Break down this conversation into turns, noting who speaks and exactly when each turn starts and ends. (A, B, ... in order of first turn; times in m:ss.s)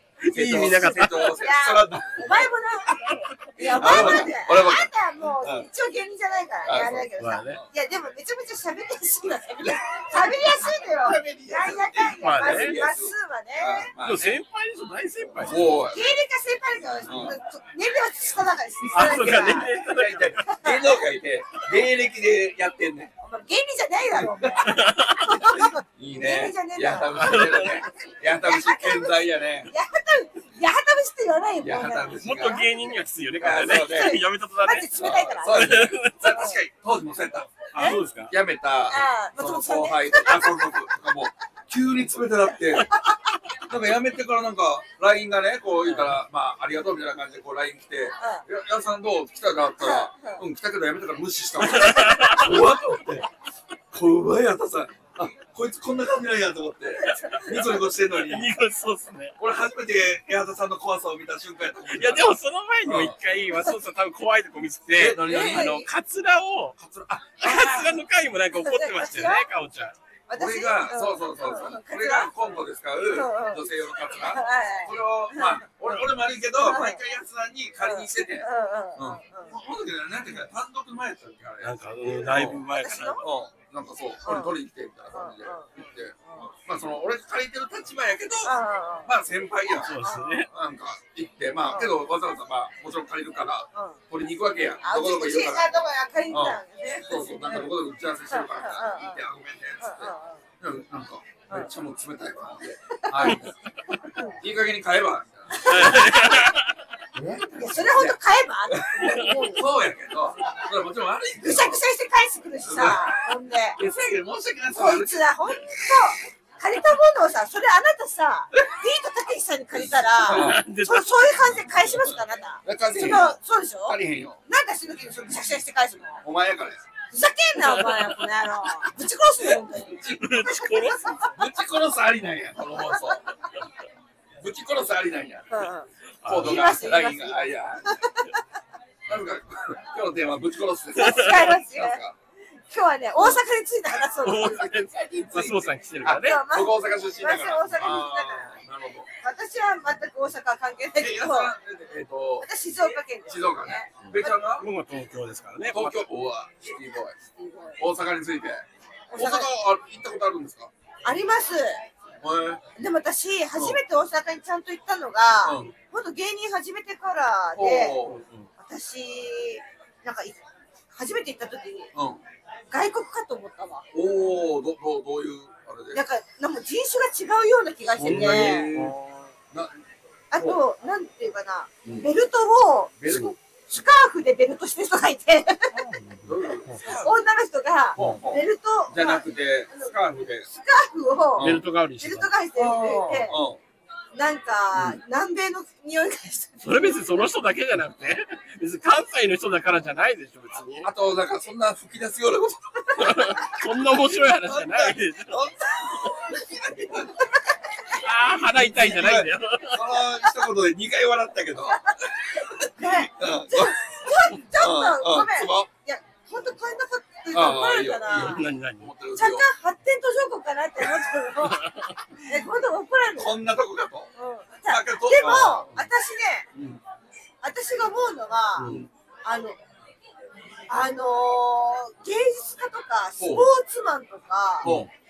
0:00.2-0:01.4 A
0:00.3-0:02.4 B
0:01.4-0:13.9 C
0:03.6-0:04.9 B
0:03.8-0:04.3 A
0:05.4-0:05.7 B
0:06.6-0:07.7 B
0:07.2-0:07.6 A
0:09.6-0:14.4 B
0:12.2-0:12.8 A
0:14.0-0:15.8 A
0:15.4-0:16.1 B
0:15.9-0:19.7 C
0:17.0-0:17.4 B
0:18.8-0:23.1 B
0:18.9-0:20.5 A
0:20.5-0:21.0 C
0:23.2-0:32.2 C
0:24.1-0:24.7 B
0:24.6-0:25.4 A
0:25.4-0:29.7 B
0:27.1-0:27.8 A
0:31.6-0:32.7 B
0:32.2-0:34.9 A
0:33.4-0:34.2 B
0:33.7-0:36.6 C
0:35.0-0:42.9 B
0:35.5-0:36.5 A
0:37.7-0:38.0 C
0:37.7-0:38.3 A
0:38.9-0:40.8 C
0:43.7-0:53.3 B
0:45.8-0:46.2 A
0:48.2-0:48.4 C
0:49.8-0:50.4 C
0:51.6-0:52.6 A
0:53.9-0:58.5 B
0:57.1-0:57.5 C
0:57.1-0:59.4 A
0:59.4-1:02.3 B
1:01.9-1:06.8 A
1:02.8-1:03.2 B
1:05.0-1:05.9 B
1:05.2-1:05.8 C
1:06.8-1:08.0 B
1:07.4-1:10.0 A
1:08.5-1:09.5 C
1:10.3-1:15.7 C
1:10.4-1:22.6 B
1:16.6-1:17.0 C
1:17.8-1:19.6 C
1:21.6-1:23.2 A
1:22.1-1:23.2 C
1:23.2-1:28.5 B
1:24.2-1:24.5 C
1:25.1-1:25.7 C
1:26.2-1:26.5 C
1:28.4-1:29.1 C
1:29.1-1:43.6 B
1:29.8-1:30.5 A
1:30.0-1:30.4 C
1:31.7-1:32.0 C
1:33.7-1:34.0 C
1:34.8-1:37.7 C
1:38.3-1:39.2 C
1:39.8-1:40.4 C
1:42.9-1:43.4 C
1:44.0-1:44.4 C
1:44.4-1:46.1 B
1:45.5-1:46.3 C
1:45.6-1:46.7 A
1:47.2-1:51.8 B
1:47.5-1:49.8 C
1:51.4-1:53.8 C
1:52.6-1:55.8 B
1:54.7-2:06.2 C
2:00.1-2:00.7 B
2:00.3-2:01.2 A
2:01.8-2:04.4 B
2:06.2-2:06.8 B
2:07.1-2:11.4 C
2:07.6-2:08.2 A
2:10.0-2:11.2 A
2:11.3-2:13.4 B
2:14.4-2:15.7 B
2:15.5-2:15.9 C
2:16.2-2:17.0 A
2:16.2-2:18.0 B
2:16.4-2:18.4 C
2:19.1-2:22.2 B
2:21.0-2:22.0 C
2:22.7-2:24.7 C
2:24.2-2:26.4 A
2:25.0-2:29.1 B
2:26.2-2:28.6 C
2:29.2-2:31.6 C
2:31.0-2:32.6 B
2:32.4-2:34.0 C
2:33.2-2:34.7 B
2:34.0-2:36.0 A
2:35.7-2:37.2 B
2:37.3-2:37.8 C
2:37.8-2:38.6 B
2:39.1-2:39.5 C
2:39.2-2:40.7 B
2:41.0-2:41.8 C
2:42.2-2:42.6 B
2:42.8-2:48.1 C
2:43.6-2:43.8 B
2:45.4-2:45.7 B
2:47.6-2:48.2 B
2:48.0-2:48.5 A
2:48.6-2:50.4 C
2:50.9-2:51.9 C
2:51.9-2:52.2 B
2:52.7-2:53.8 C
2:53.9-2:56.0 B
2:55.9-2:58.8 C
2:58.0-2:59.0 B
2:58.0-2:59.3 A
2:59.5-2:59.8 B
3:00.3-3:05.8 C
3:03.0-3:03.3 B
3:05.8-3:06.9 A
3:06.2-3:07.2 B
3:07.0-3:10.0 C
3:08.0-3:08.2 A
3:08.0-3:10.5 B
3:10.5-3:13.4 C
3:11.4-3:11.6 B
3:11.4-3:12.3 A
3:12.6-3:13.6 B
3:14.1-3:17.1 C
3:16.6-3:20.9 A
3:20.8-3:27.3 B
3:23.0-3:25.5 A
3:25.8-3:26.2 C
3:27.9-3:29.9 A
3:28.5-3:35.7 B
3:31.7-3:38.4 C
3:37.3-3:39.5 B
3:38.1-3:38.9 A
3:39.2-3:43.4 C
3:41.5-3:41.9 A
3:43.2-3:44.1 B
3:44.2-3:46.5 C
3:44.7-3:45.9 B
3:46.5-3:46.8 B
3:47.4-3:48.7 C
3:48.6-3:48.8 A
3:48.6-3:48.9 B
3:49.2-3:49.6 C
3:50.7-3:54.7 C
3:53.2-3:53.5 B
3:54.6-3:54.9 A
3:54.6-3:54.9 B